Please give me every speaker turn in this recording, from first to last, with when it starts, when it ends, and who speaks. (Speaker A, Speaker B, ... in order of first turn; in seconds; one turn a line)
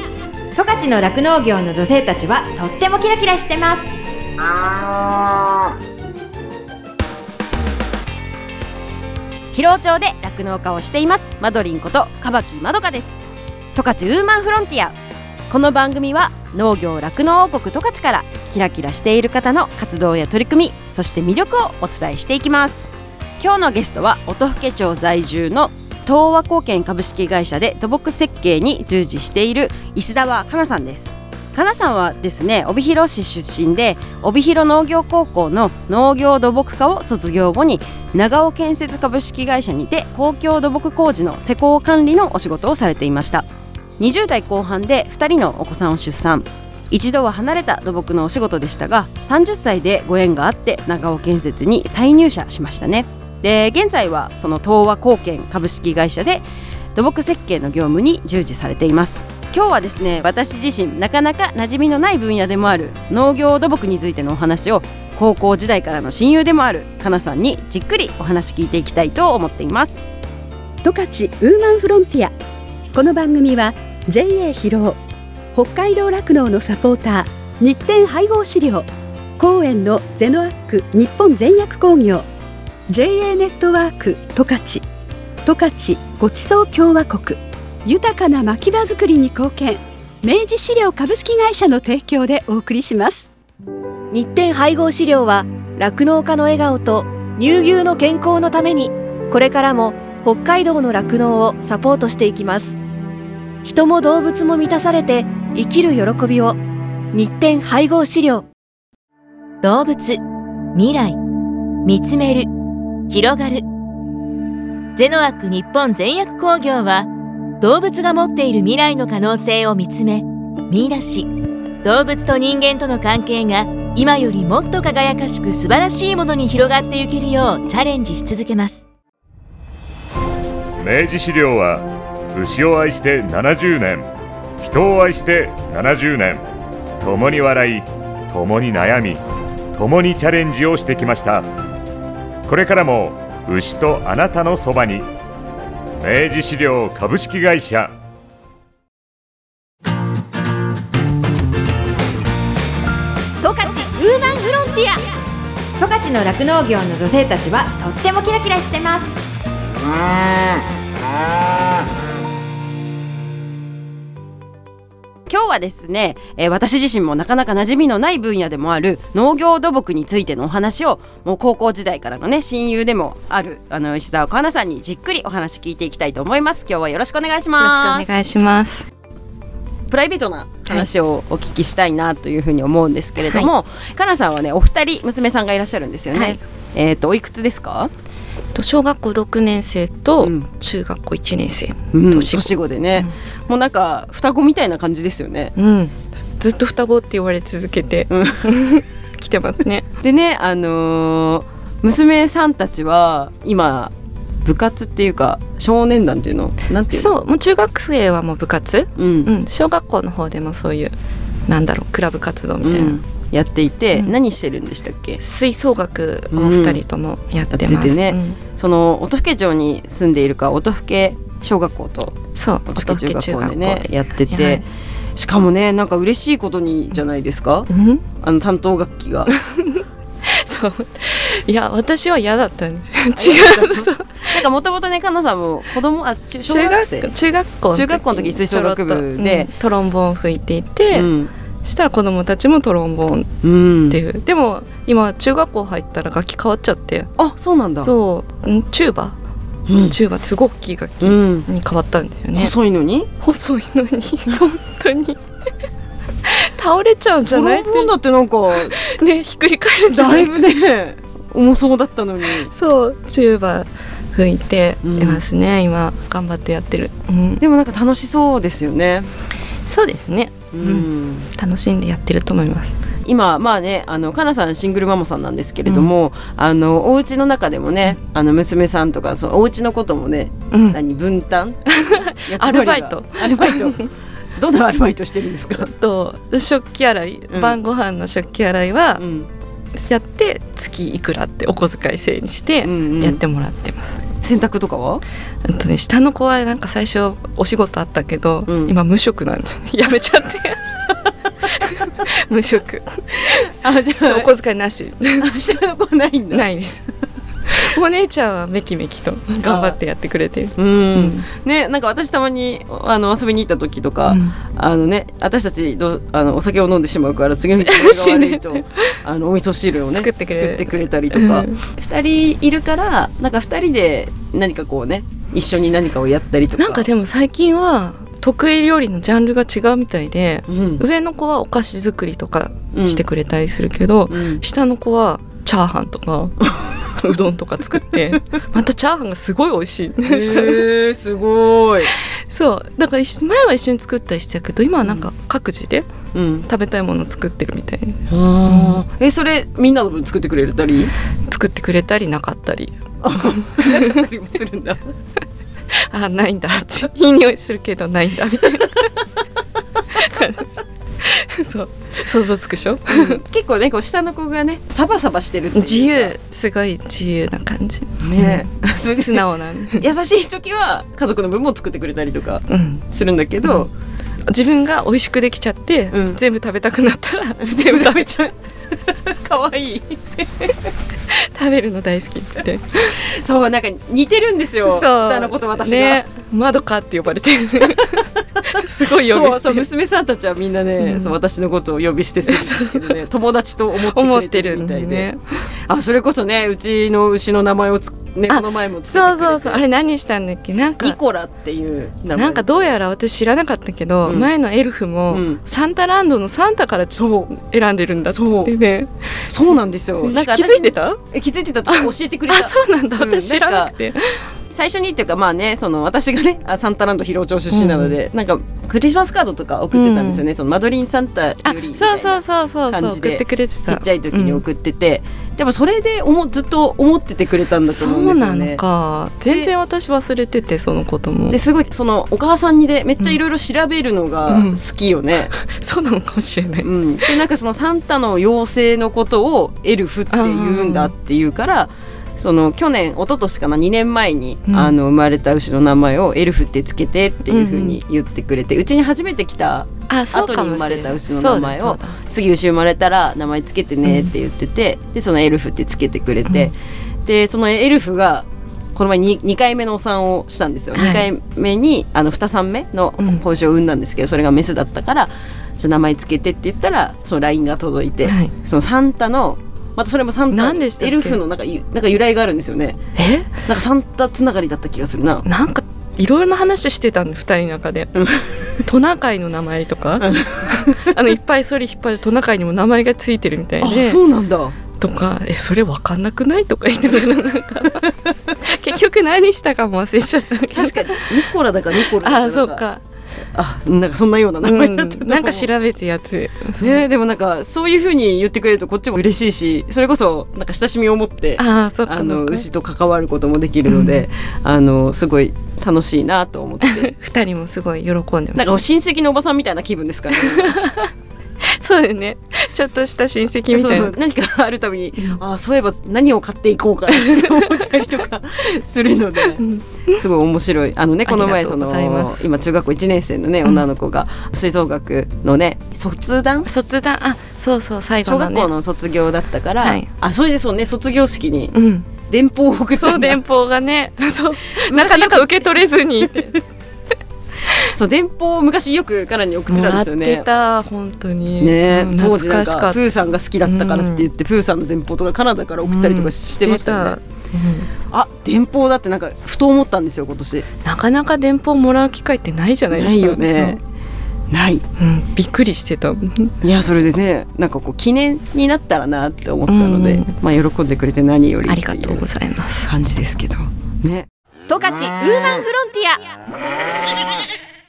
Speaker A: 0.5-4.0
Speaker B: 9.5-13.2
Speaker B: 13.7-14.9
Speaker B: 15.5-43.5
Speaker B: 44.0-56.4
Speaker B: 56.9-70.0
Speaker C: 70.8-72.3
Speaker C: 72.9-75.0
Speaker C: 75.5-82.3
Speaker C: 82.9-84.8
Speaker C: 85.4-93.3
Speaker D: 94.1-102.8
Speaker D: 103.6-106.6
Speaker D: 107.1-108.5
Speaker E: 109.6-110.2
Speaker E: 110.7-111.2
Speaker E: 111.8-112.5
Speaker E: 113.1-113.6
Speaker E: 115.0-117.1
Speaker E: 117.6-121.3
Speaker E: 121.8-128.8
Speaker F: 130.8-134.1
Speaker F: 134.6-136.4
Speaker F: 137.0-139.2
Speaker F: 139.7-141.5
Speaker F: 142.5-145.1
Speaker F: 146.0-147.9
Speaker D: 153.4-155.0
Speaker A: 155.8-159.1
Speaker B: 165.3-178.1
Speaker G: 177.6-178.9
Speaker B: 179.9-187.9
Speaker G: 186.1-186.4
Speaker G: 188.5-193.1
Speaker B: 190.2-190.5
Speaker B: 191.9-195.5
Speaker G: 195.6-199.8
Speaker B: 198.1-198.4
Speaker B: 200.0-203.9
Speaker B: 204.4-207.1
Speaker G: 206.9-210.9
Speaker B: 209.0-209.3
Speaker G: 211.5-213.0
Speaker B: 212.6-215.2
Speaker G: 215.2-218.4
Speaker B: 216.3-216.8
Speaker B: 217.5-227.7
Speaker G: 222.3-224.6
Speaker G: 227.7-228.0
Speaker B: 228.2-229.3
Speaker G: 229.3-234.4
Speaker B: 233.2-237.1
Speaker G: 236.5-241.1
Speaker B: 237.7-239.5
Speaker B: 240.9-241.3
Speaker G: 241.6-243.3
Speaker B: 243.4-244.0
Speaker G: 243.9-247.1
Speaker B: 247.2-247.9
Speaker G: 247.8-249.2
Speaker B: 249.7-250.0
Speaker G: 249.8-252.5
Speaker B: 251.0-251.5
Speaker B: 252.3-253.1
Speaker G: 253.2-255.2
Speaker G: 256.2-257.9
Speaker B: 257.3-258.8
Speaker G: 258.5-260.3
Speaker B: 259.9-262.5
Speaker G: 262.5-267.4
Speaker B: 264.8-265.2
Speaker B: 267.4-269.1
Speaker G: 269.7-272.7
Speaker B: 270.5-271.3
Speaker B: 273.0-285.7
Speaker G: 275.6-275.9
Speaker G: 280.5-280.8
Speaker G: 281.7-283.9
Speaker G: 285.6-289.0
Speaker B: 287.3-287.6
Speaker B: 289.0-289.3
Speaker G: 289.8-294.0
Speaker B: 292.6-293.2
Speaker B: 294.2-295.0
Speaker G: 295.4-300.6
Speaker B: 298.5-298.7
Speaker G: 301.5-305.3
Speaker B: 303.5-304.3
Speaker B: 305.2-306.4
Speaker G: 306.3-306.9
Speaker G: 307.5-311.3
Speaker B: 309.4-309.8
Speaker B: 310.6-326.9
Speaker G: 314.1-314.4
Speaker G: 317.7-319.0
Speaker G: 319.9-321.6
Speaker G: 326.6-336.4
Speaker B: 330.5-330.8
Speaker B: 332.7-333.0
Speaker B: 334.1-334.4
Speaker G: 336.9-340.6
Speaker B: 340.1-341.9
Speaker G: 341.9-345.9
Speaker B: 346.1-346.5
Speaker G: 346.5-348.8
Speaker B: 348.1-350.9
Speaker G: 351.3-354.0
Speaker B: 353.0-354.8
Speaker G: 355.8-358.9
Speaker G: 359.9-360.5
Speaker G: 361.0-363.2
Speaker B: 362.9-366.1
Speaker G: 365.5-369.9
Speaker B: 368.0-369.2
Speaker B: 369.8-373.7
Speaker G: 372.5-372.8
Speaker G: 373.4-373.7
Speaker G: 374.3-378.2
Speaker B: 375.9-376.2
Speaker B: 377.4-378.3
Speaker B: 378.9-380.5
Speaker G: 381.1-383.0
Speaker B: 383.0-386.0
Speaker G: 384.7-389.6
Speaker B: 389.1-395.1
Speaker G: 390.8-391.1
Speaker G: 392.3-393.0
Speaker G: 393.9-395.4
Speaker B: 395.7-399.6
Speaker G: 398.3-401.0
Speaker B: 400.8-402.7
Speaker G: 402.1-409.3
Speaker B: 405.1-405.4
Speaker B: 406.9-407.3
Speaker B: 408.1-408.5
Speaker B: 409.3-413.7
Speaker G: 410.1-411.0
Speaker G: 411.7-414.3
Speaker B: 414.5-428.6
Speaker G: 417.5-417.9
Speaker G: 419.7-420.2
Speaker G: 421.4-424.4
Speaker G: 427.7-431.4
Speaker B: 431.3-435.3
Speaker G: 434.3-434.6
Speaker G: 435.4-436.7
Speaker B: 436.6-456.5
Speaker G: 440.1-440.9
Speaker G: 444.5-444.7
Speaker G: 447.3-447.8
Speaker G: 449.9-452.0
Speaker G: 453.8-454.1
Speaker B: 457.1-472.8
Speaker G: 460.7-461.1
Speaker G: 468.0-468.3
Speaker G: 470.3-471.2
Speaker G: 473.0-473.3
Speaker B: 473.4-475.2
Speaker G: 475.2-477.9
Speaker B: 477.9-478.5
Speaker G: 478.6-484.0
Speaker B: 480.0-480.8
Speaker B: 483.6-484.6
Speaker G: 484.8-487.9
Speaker G: 488.4-491.2
Speaker B: 490.5-492.6
Speaker G: 492.0-492.8
Speaker B: 493.3-495.5
Speaker G: 494.4-496.8
Speaker B: 496.6-506.9
Speaker G: 501.4-502.4
Speaker G: 503.7-504.0
Speaker G: 506.6-508.6
Speaker B: 508.4-510.6
Speaker G: 510.1-510.9
Speaker G: 511.5-513.9
Speaker B: 513.5-526.5
Speaker G: 517.0-517.7
Speaker G: 519.4-520.0
Speaker G: 521.0-522.2
Speaker G: 526.5-528.5
Speaker B: 528.0-531.5
Speaker G: 531.5-531.9
Speaker B: 532.1-533.2
Speaker G: 532.8-536.4
Speaker B: 534.7-535.5
Speaker B: 537.7-540.2
Speaker G: 539.5-542.8
Speaker B: 541.4-547.0
Speaker G: 543.4-544.0
Speaker G: 545.6-547.7
Speaker B: 547.9-550.5
Speaker G: 550.6-553.5
Speaker B: 552.7-553.6
Speaker B: 554.3-554.6
Speaker G: 554.8-556.4
Speaker B: 556.4-562.0
Speaker G: 559.5-560.1
Speaker G: 561.5-562.7
Speaker B: 562.6-564.1
Speaker D: 564.5-566.0